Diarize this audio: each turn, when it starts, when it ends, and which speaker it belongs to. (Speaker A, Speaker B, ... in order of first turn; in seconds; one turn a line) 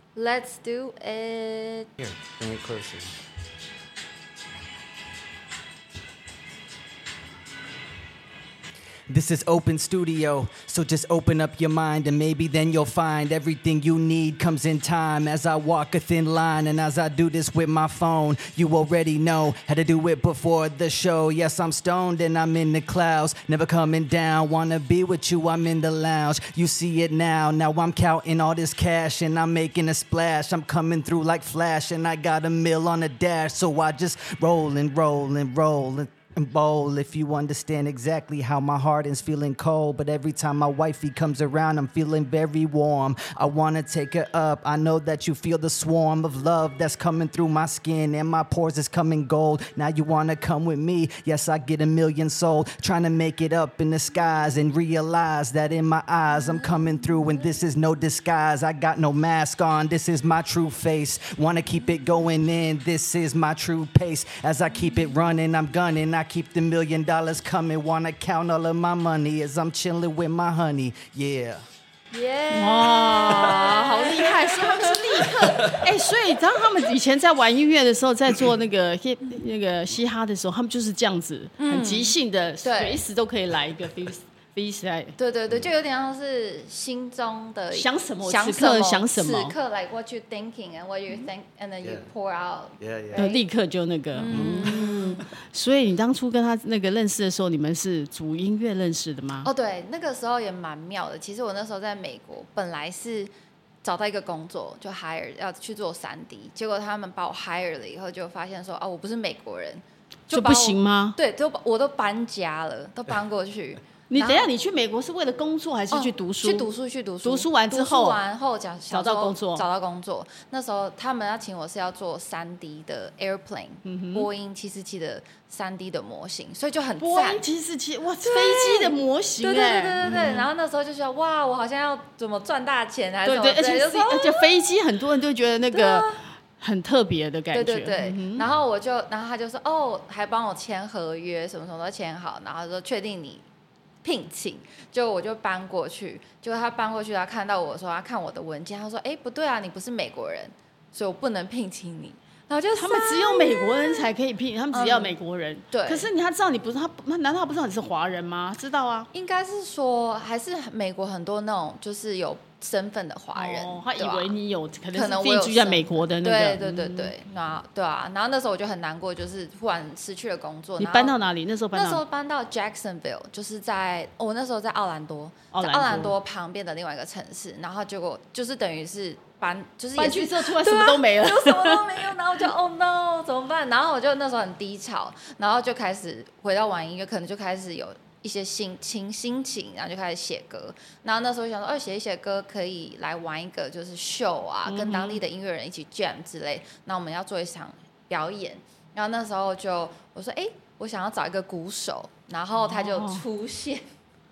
Speaker A: 0.1-1.9
Speaker B: 2.0-3.1
Speaker C: 9.1-71.7
Speaker A: 72.1-75.8
Speaker D: 72.5-85.2
Speaker A: 81.6-83.0
Speaker A: 85.2-93.5
Speaker D: 87.7-89.5
Speaker B: 91.8-92.1
Speaker B: 92.8-93.3
Speaker D: 93.1-99.5
Speaker A: 94.2-95.2
Speaker B: 94.3-94.7
Speaker A: 99.4-103.3
Speaker A: 103.8-114.5
Speaker D: 110.3-111.2
Speaker D: 114.1-116.7
Speaker A: 115.9-127.4
Speaker D: 117.2-118.2
Speaker D: 118.9-119.6
Speaker D: 123.8-124.3
Speaker D: 127.0-130.5
Speaker A: 128.2-134.7
Speaker D: 133.2-138.4
Speaker A: 135.7-136.2
Speaker A: 137.5-143.4
Speaker A: 144.0-154.1
Speaker D: 152.7-159.1
Speaker A: 154.7-155.2
Speaker A: 155.7-156.1
Speaker A: 159.1-164.3
Speaker D: 163.3-167.1
Speaker A: 164.9-171.2
Speaker D: 170.8-172.0
Speaker A: 171.7-203.8
Speaker D: 175.5-176.2
Speaker D: 180.0-182.1
Speaker D: 194.7-195.2
Speaker D: 202.7-203.2